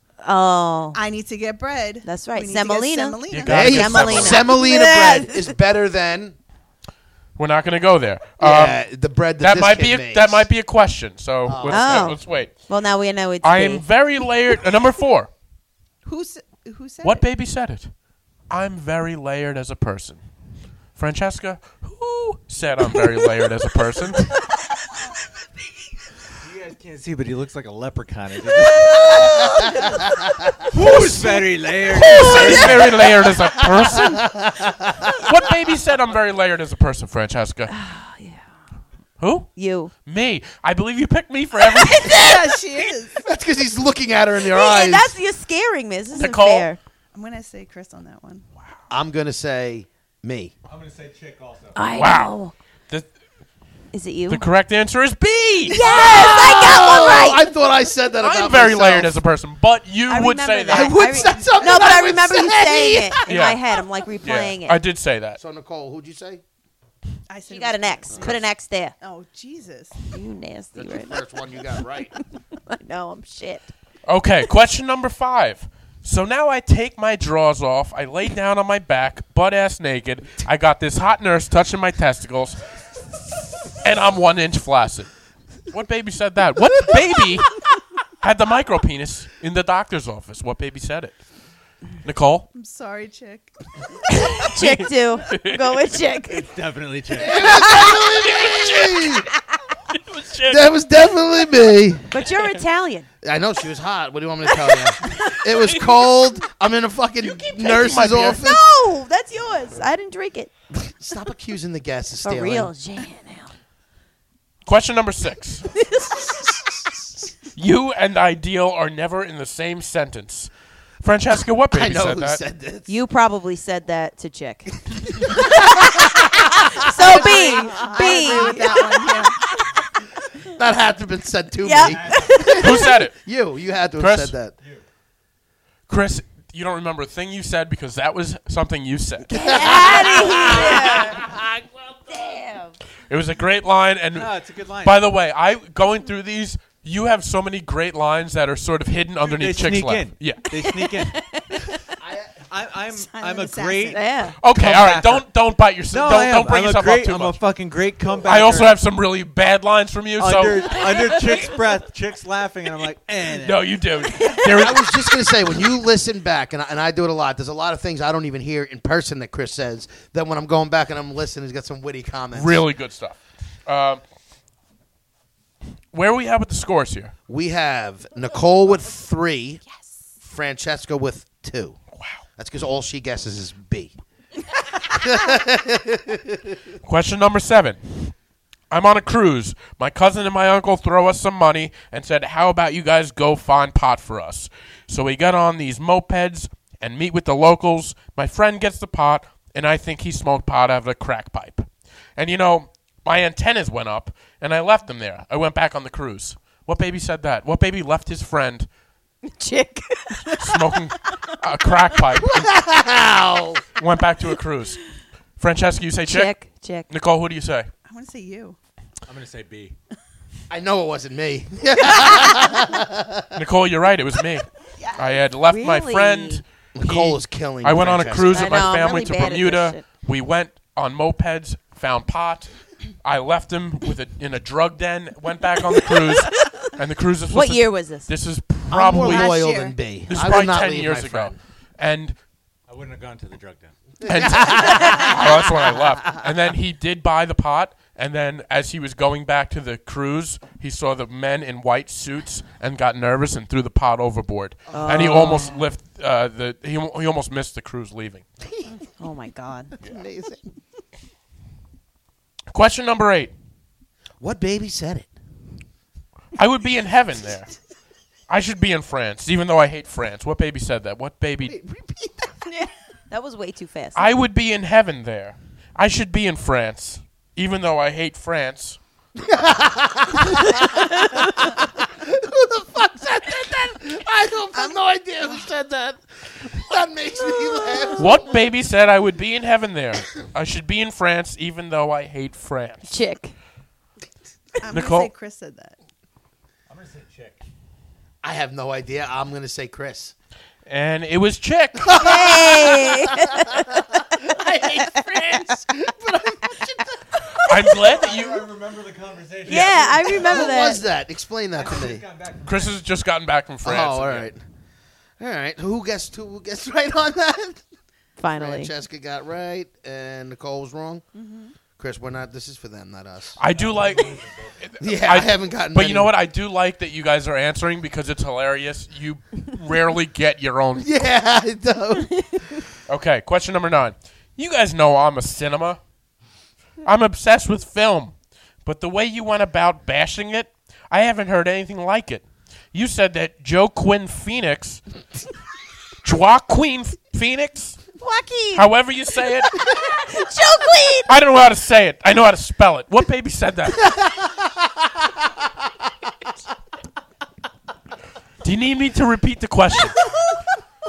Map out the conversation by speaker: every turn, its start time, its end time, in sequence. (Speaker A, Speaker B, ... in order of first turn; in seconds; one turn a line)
Speaker A: 0.2-1.0
Speaker B: 0.9-3.9
Speaker A: 2.0-5.5
Speaker C: 3.3-4.5
Speaker D: 3.5-6.4
Speaker C: 7.4-8.8
Speaker D: 8.4-10.5
Speaker C: 9.4-12.5
Speaker D: 11.5-12.2
Speaker A: 11.7-13.8
Speaker C: 13.4-15.3
Speaker B: 16.1-17.2
Speaker C: 17.0-17.9
Speaker C: 18.5-20.2
Speaker C: 21.0-24.3
Speaker E: 26.4-29.8
Speaker A: 28.7-30.0
Speaker D: 29.5-30.5
Speaker E: 30.7-33.0
Speaker C: 30.8-31.2
Speaker C: 32.0-34.2
Speaker A: 32.0-32.7
Speaker D: 32.1-35.2
Speaker C: 35.2-37.7
Speaker A: 37.7-38.5
Speaker C: 39.2-39.5
Speaker A: 39.6-39.9
Speaker C: 40.1-42.6
Speaker A: 41.8-42.4
Speaker B: 42.0-43.2
Speaker D: 43.2-45.2
Speaker A: 44.4-46.8
Speaker C: 46.1-46.7
Speaker B: 47.1-48.5
Speaker D: 48.9-50.5
Speaker E: 50.7-51.8
Speaker A: 51.8-52.5
Speaker C: 52.0-52.4
Speaker A: 53.9-54.5
Speaker C: 54.3-56.7
Speaker A: 55.7-57.5
Speaker D: 55.7-59.2
Speaker C: 58.2-61.0
Speaker A: 60.1-64.8
Speaker D: 60.7-63.2
Speaker C: 63.3-63.6
Speaker C: 64.2-65.4
Speaker D: 65.4-66.4
Speaker B: 67.3-68.4
Speaker A: 67.5-69.0
Speaker B: 69.0-70.0
Speaker A: 70.1-71.2
Speaker D: 70.8-72.2
Speaker A: 72.7-73.7
Speaker C: 74.1-82.6
Speaker C: 83.8-85.1
Speaker C: 85.7-87.7
Speaker C: 88.2-91.2
Speaker C: 92.0-92.5
Speaker B: 92.5-93.5
Speaker A: 94.1-96.5
Speaker C: 94.5-95.8
Speaker E: 96.3-97.7
Speaker D: 97.1-99.3
Speaker A: 97.4-97.9
Speaker C: 97.5-99.2
Speaker C: 99.9-100.7
Speaker D: 100.5-102.1
Speaker A: 102.1-103.1
Speaker D: 103.2-108.7
Speaker A: 104.5-105.4
Speaker C: 107.6-108.4
Speaker A: 108.2-110.5
Speaker D: 110.7-112.7
Speaker A: 112.2-113.5
Speaker C: 114.7-115.7
Speaker C: 117.5-122.4
Speaker D: 121.7-122.9
Speaker A: 122.9-129.3
Speaker D: 125.3-128.6
Speaker B: 126.8-129.4
Speaker D: 130.4-134.5
Speaker A: 131.6-132.9
Speaker E: 131.8-132.6
Speaker C: 132.5-133.2
Speaker C: 134.0-134.3
Speaker C: 135.9-140.8
Speaker D: 139.3-142.4
Speaker A: 139.3-141.2
Speaker A: 142.1-142.8
Speaker C: 143.1-150.5
Speaker E: 144.1-145.0
Speaker E: 149.2-151.2
Speaker A: 150.6-151.8
Speaker E: 152.0-155.3
Speaker B: 152.9-154.0
Speaker A: 153.9-154.4
Speaker C: 154.4-157.4
Speaker E: 155.9-158.8
Speaker C: 158.2-161.1
Speaker E: 160.2-163.8
Speaker C: 163.4-165.1
Speaker A: 164.1-164.6
Speaker D: 164.4-172.7
Speaker C: 172.3-174.0
Speaker C: 175.9-177.1
Speaker D: 177.3-179.6
Speaker D: 180.2-181.8
Speaker D: 182.4-183.9
Speaker D: 184.9-186.6
Speaker C: 186.8-188.1
Speaker C: 188.7-208.7
Speaker A: 209.2-210.6
Speaker C: 210.3-212.5
Speaker D: 212.2-213.6
Speaker C: 213.8-214.8
Speaker C: 215.4-216.4
Speaker A: 216.1-216.9
Speaker C: 216.9-217.7
Speaker B: 217.9-218.6
Speaker E: 219.1-219.8
Speaker D: 220.5-223.3
Speaker C: 223.3-232.5
Speaker A: 224.8-226.4
Speaker D: 226.8-228.6
Speaker A: 228.3-229.8
Speaker C: 233.0-239.3
Speaker A: 235.8-236.7
Speaker A: 237.3-238.1
Speaker D: 238.7-241.4
Speaker B: 238.9-239.8
Speaker C: 240.1-242.2
Speaker E: 242.7-243.7
Speaker D: 244.0-246.2
Speaker C: 244.0-258.2
Speaker D: 254.7-255.5
Speaker A: 254.7-255.6
Speaker A: 259.0-259.7
Speaker D: 259.8-260.5
Speaker C: 262.5-263.3
Speaker D: 264.2-265.1
Speaker C: 266.4-267.5
Speaker C: 268.3-271.6
Speaker D: 271.4-272.4
Speaker A: 272.5-274.1
Speaker C: 273.9-278.8
Speaker D: 279.2-288.4
Speaker B: 284.6-285.5
Speaker C: 288.0-292.9
Speaker A: 292.9-293.4
Speaker B: 294.6-295.8
Speaker C: 294.7-295.1
Speaker E: 296.7-297.4
Speaker D: 298.2-300.1
Speaker C: 300.7-302.2
Speaker D: 301.8-307.0
Speaker A: 301.9-304.0
Speaker C: 307.4-308.5
Speaker E: 307.8-310.5
Speaker A: 309.5-310.8
Speaker C: 309.5-309.7
Speaker D: 310.2-312.0
Speaker E: 311.6-312.8
Speaker C: 312.5-314.3
Speaker D: 313.6-314.4
Speaker D: 315.2-317.6
Speaker A: 318.2-318.7
Speaker D: 318.4-321.0
Speaker B: 321.1-321.5
Speaker D: 321.8-323.4
Speaker C: 323.4-330.9
Speaker E: 323.5-324.6
Speaker D: 324.8-326.1
Speaker D: 330.8-332.6
Speaker C: 332.9-335.8
Speaker C: 336.8-344.8
Speaker C: 346.0-347.8
Speaker A: 348.0-348.7
Speaker C: 348.5-349.5
Speaker A: 349.8-351.1
Speaker C: 351.1-354.0
Speaker D: 353.9-354.5
Speaker C: 358.4-360.0